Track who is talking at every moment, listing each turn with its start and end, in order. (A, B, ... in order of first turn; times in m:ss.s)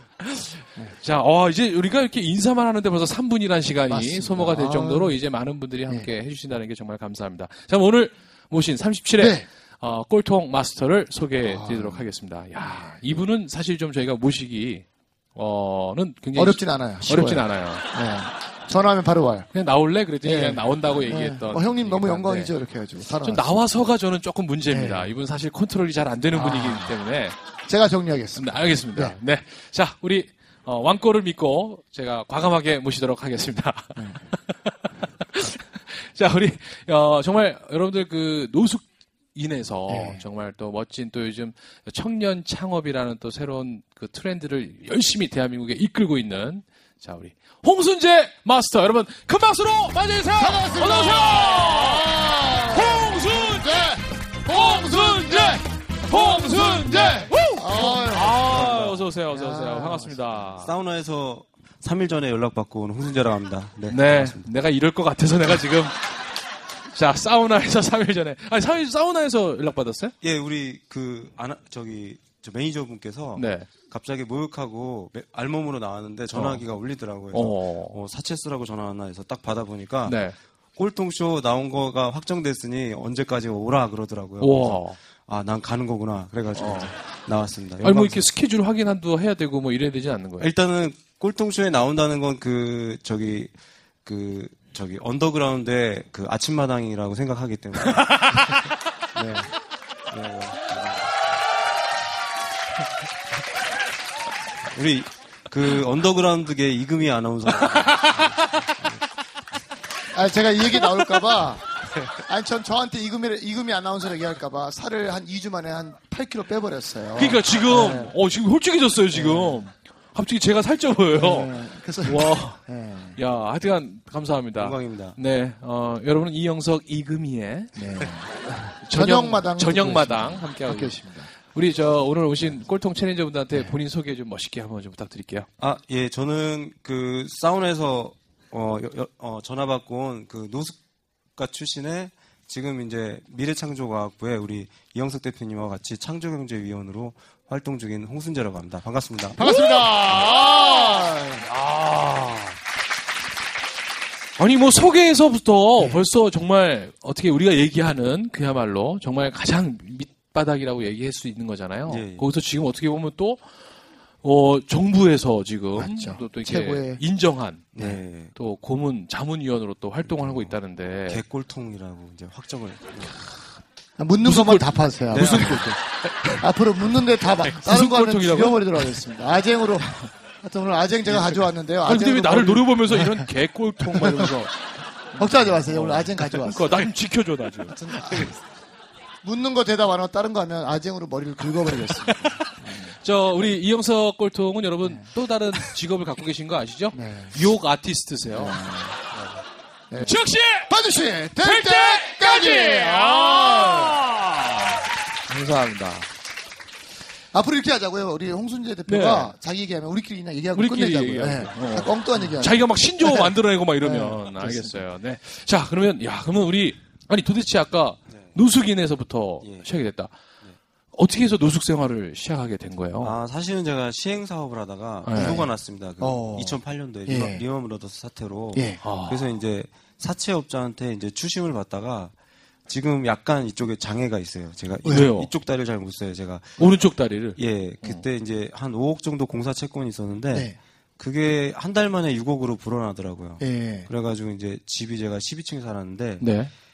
0:00.2-0:17.9 A
0:03.9-0:05.2 B
0:09.2-0:09.5 B
0:11.4-0:12.1 B
0:16.4-0:19.5 B
0:19.5-0:22.5 A
0:20.2-0:23.6 B
0:23.2-0:27.4 A
0:24.7-0:25.1 B
0:26.3-0:26.9 B
0:27.7-0:29.2 B
0:28.4-0:52.2 A
0:34.0-0:34.3 B
0:39.9-0:40.2 B
0:50.3-0:58.6 B
0:52.7-1:00.7 A
0:58.4-0:59.1 C
0:59.3-1:00.4 B
1:00.6-1:04.5 C
1:03.9-1:06.0 A
1:06.9-1:10.2 A
1:10.2-1:20.2 C
1:13.3-1:13.7 A
1:16.3-1:16.6 A
1:17.3-1:18.0 A
1:20.0-1:20.4 A
1:20.8-1:28.3 C
1:24.4-1:25.0 A
1:26.5-1:26.9 A
1:27.8-1:30.5 A
1:30.4-1:33.5 C
1:34.0-1:38.6 C
1:38.0-1:38.6 A
1:39.2-1:39.5 B
1:40.1-1:41.1 C
1:44.6-1:48.9 C
1:47.7-1:48.7 A
1:50.1-1:58.2 B
1:57.2-2:02.6 A
1:59.1-1:59.7 B
2:01.1-2:03.2 B
2:03.2-2:15.5 A
2:04.6-2:05.2 C
2:07.8-2:08.3 B
2:08.9-2:11.3 B
2:15.6-2:20.8 C
2:21.4-2:29.4 C
2:29.4-2:31.4 B
2:29.4-2:32.6 A
2:34.4-2:43.5 A
2:35.8-2:36.0 B
2:41.8-2:42.3 C
2:44.2-2:47.8 A
2:45.8-2:47.0 B
2:47.7-2:48.4 C
2:48.3-2:51.2 A
2:50.0-2:53.2 C
2:54.0-2:55.8 B
2:54.2-2:56.4 A
2:55.1-2:55.8 C
2:56.3-3:03.2 B
2:57.2-2:59.0 A
3:01.1-3:04.5 A
3:03.9-3:04.4 B
3:05.1-3:06.9 B
3:05.2-3:08.4 A
3:07.7-3:08.3 B
3:09.2-3:12.9 B
3:11.7-3:19.3 A
3:14.8-3:15.1 B
3:16.9-3:17.4 B
3:18.3-3:19.0 B
3:19.9-3:24.0 B
3:20.0-3:20.8 A
3:21.4-3:26.1 A
3:27.3-3:34.8 B
3:28.9-3:29.4 A
3:30.6-3:40.1 A
3:39.4-3:39.7 C
3:40.9-3:43.2 A
3:43.0-3:52.1 C
3:45.0-3:45.5 A
3:45.2-3:45.5 B
3:46.0-3:47.4 B
3:48.5-3:48.8 B
3:48.8-3:49.2 A
3:52.7-3:56.8 C
3:54.8-3:55.1 B
3:54.8-3:55.3 A
3:56.6-3:58.0 A
3:57.4-4:06.3 C
4:03.4-4:03.9 B
4:06.2-4:06.5 A